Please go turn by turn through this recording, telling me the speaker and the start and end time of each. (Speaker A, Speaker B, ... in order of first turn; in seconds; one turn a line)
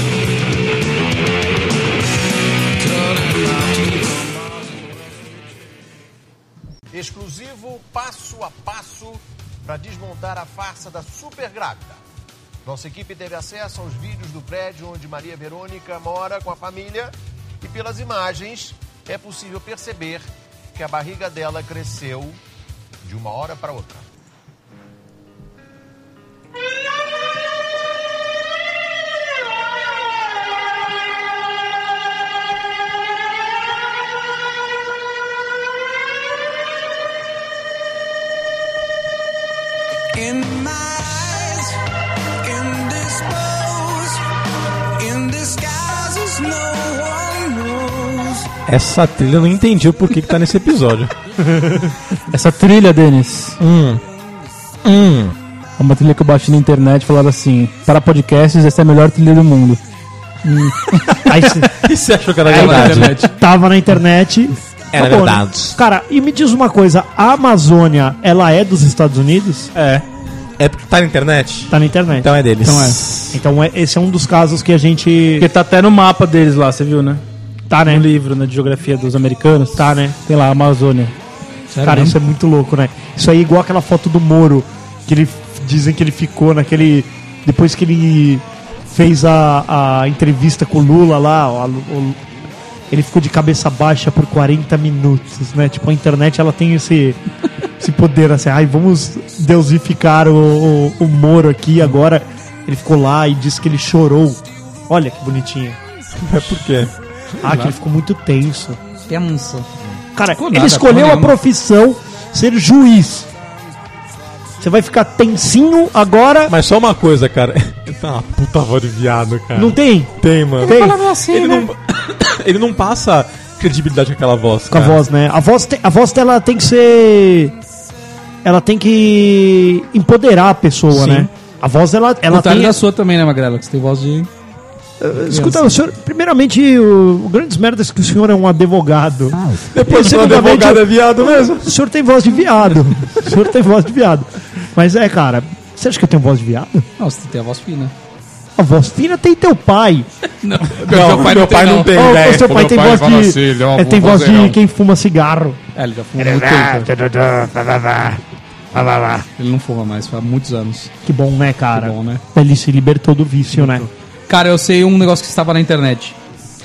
Speaker A: 2.8-5.0
Speaker B: 6.9-12.0
Speaker B: 12.7-20.2
Speaker B: 20.8-22.4
Speaker B: 23.0-24.1
Speaker A: 40.1-41.8
Speaker A: 42.4-44.3
Speaker A: 45.0-48.5
Speaker C: 48.7-51.1
Speaker D: 51.6-51.9
Speaker E: 52.3-53.6
Speaker C: 53.6-54.0
Speaker C: 54.8-55.4
Speaker E: 55.8-59.8
Speaker F: 60.5-60.8
Speaker D: 61.2-61.7
Speaker C: 61.8-63.1
Speaker D: 62.5-69.7
Speaker F: 62.5-63.3
Speaker C: 64.9-65.8
Speaker E: 69.8-70.0
Speaker C: 70.6-73.4
Speaker D: 71.7-72.3
Speaker F: 72.6-73.0
Speaker D: 73.3-75.5
Speaker E: 75.4-77.2
Speaker D: 77.7-78.1
Speaker E: 77.9-81.2
Speaker D: 79.8-80.2
Speaker F: 81.7-82.2
Speaker D: 81.8-92.2
Speaker D: 92.9-97.2
Speaker D: 97.8-105.8
Speaker C: 106.2-106.9
Speaker D: 107.4-108.8
Speaker F: 107.5-107.8
Speaker F: 109.1-109.7
Speaker D: 110.2-113.3
Speaker F: 110.3-111.4
Speaker D: 114.6-116.5
Speaker C: 116.5-125.0
Speaker D: 119.5-121.0
Speaker F: 120.7-121.6
Speaker D: 124.7-127.5
Speaker D: 128.4-132.8
Speaker C: 130.9-131.3
Speaker F: 132.3-134.3
Speaker D: 135.0-146.9
Speaker F: 135.3-135.7
Speaker C: 139.7-141.7
Speaker F: 147.0-147.9
Speaker D: 148.6-150.1
Speaker F: 150.4-151.9
Speaker C: 150.8-153.0
Speaker D: 151.9-155.6
Speaker F: 152.8-154.6
Speaker F: 155.8-156.9
Speaker D: 156.2-158.2
Speaker D: 158.7-159.3
Speaker F: 159.4-160.9
Speaker D: 161.1-163.9
Speaker F: 161.7-162.2
Speaker F: 163.6-166.2